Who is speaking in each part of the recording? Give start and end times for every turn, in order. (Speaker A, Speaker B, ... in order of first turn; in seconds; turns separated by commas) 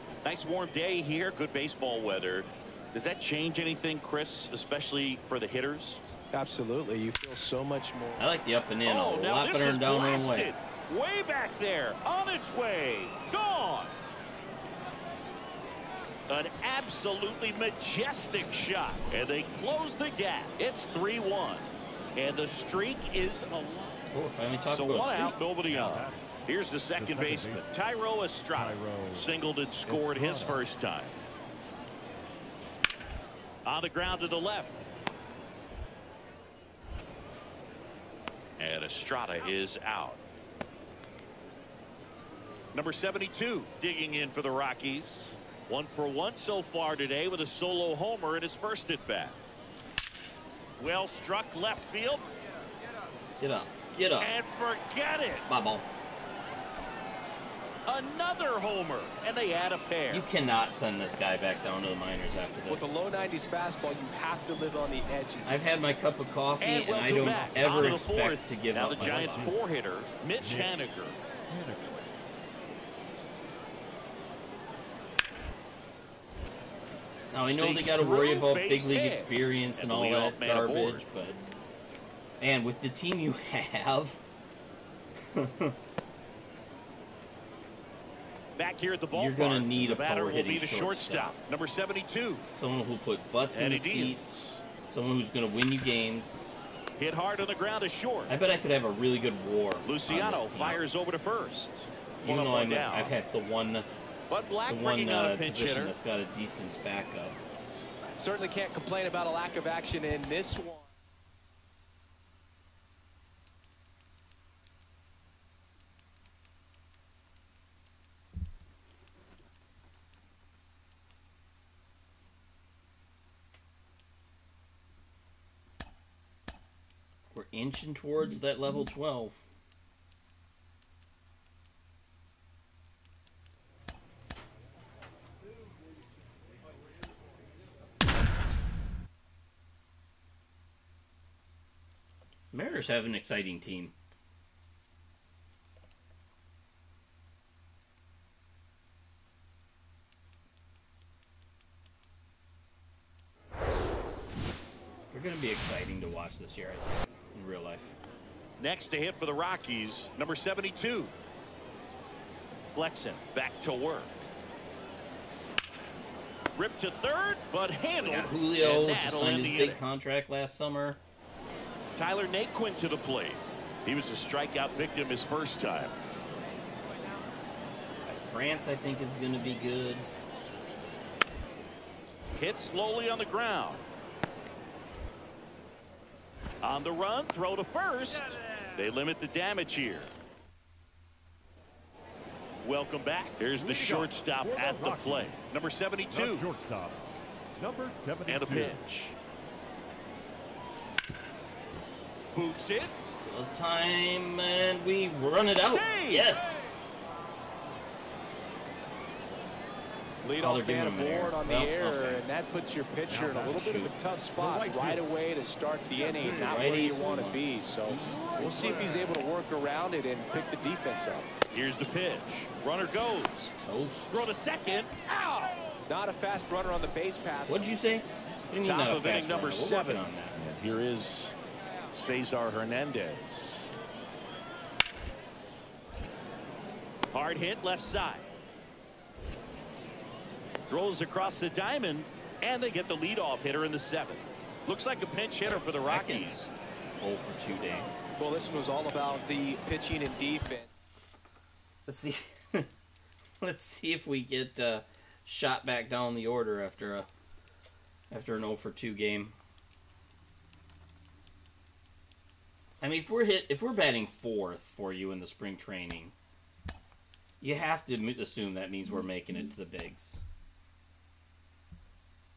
Speaker A: 0.2-6.0, Speaker B: 6.3-8.3, Speaker C: 8.2-10.5, Speaker A: 8.9-13.9, Speaker A: 16.3-23.9, Speaker C: 24.1-25.4, Speaker A: 24.7-31.2, Speaker D: 25.7-26.2, Speaker D: 27.0-27.6, Speaker D: 28.5-29.3, Speaker D: 29.9-30.6, Speaker A: 33.6-34.8, Speaker A: 38.6-40.2, Speaker A: 42.7-49.4, Speaker A: 50.8-52.3, Speaker C: 53.4-54.4, Speaker A: 54.2-55.5, Speaker C: 55.5-55.9, Speaker A: 57.9-60.3, Speaker C: 60.1-63.0, Speaker B: 62.7-65.6, Speaker C: 65.5-69.5, Speaker A: 66.6-71.2, Speaker D: 67.1-68.1, Speaker D: 69.0-69.6, Speaker D: 70.4-70.8, Speaker D: 71.5-71.9, Speaker C: 77.3-81.4, Speaker A: 77.5-81.0, Speaker C: 82.4-84.2, Speaker C: 85.2-85.8, Speaker A: 88.6-92.5, Speaker C: 89.1-91.3, Speaker C: 92.6-96.5, Speaker A: 93.5-94.6, Speaker A: 97.0-98.3, Speaker C: 98.3-100.8, Speaker A: 99.8-103.1, Speaker C: 102.2-103.9, Speaker A: 104.3-106.0, Speaker C: 104.7-107.4, Speaker B: 108.1-110.9, Speaker C: 127.3-129.5, Speaker C: 142.5-143.9, Speaker C: 155.1-158.0, Speaker A: 158.6-161.1, Speaker A: 162.7-164.2, Speaker A: 166.6-169.8, Speaker C: 168.0-171.0, Speaker A: 172.0-175.9, Speaker C: 178.0-180.1, Speaker A: 182.4-183.8, Speaker A: 186.6-190.1, Speaker A: 192.6-196.5, Speaker D: 193.6-195.4, Speaker D: 196.1-197.0, Speaker D: 197.6-198.8, Speaker A: 198.3-199.2, Speaker A: 202.3-202.9, Speaker C: 203.1-207.0, Speaker A: 205.6-206.4, Speaker B: 210.2-221.3, Speaker C: 210.4-212.3, Speaker D: 213.1-213.6, Speaker C: 213.4-213.9, Speaker D: 214.4-215.1, Speaker D: 216.0-216.7, Speaker C: 216.1-219.3, Speaker A: 221.5-223.6, Speaker C: 223.6-224.3, Speaker A: 224.1-224.9, Speaker B: 225.1-227.6, Speaker C: 227.5-230.4, Speaker A: 228.6-231.3, Speaker A: 231.9-233.7, Speaker A: 237.1-238.3, Speaker A: 240.7-246.5, Speaker C: 245.4-247.9, Speaker B: 248.2-250.7, Speaker C: 251.9-252.7, Speaker C: 253.4-257.1, Speaker C: 258.1-259.4, Speaker C: 262.8-266.1, Speaker C: 267.4-270.2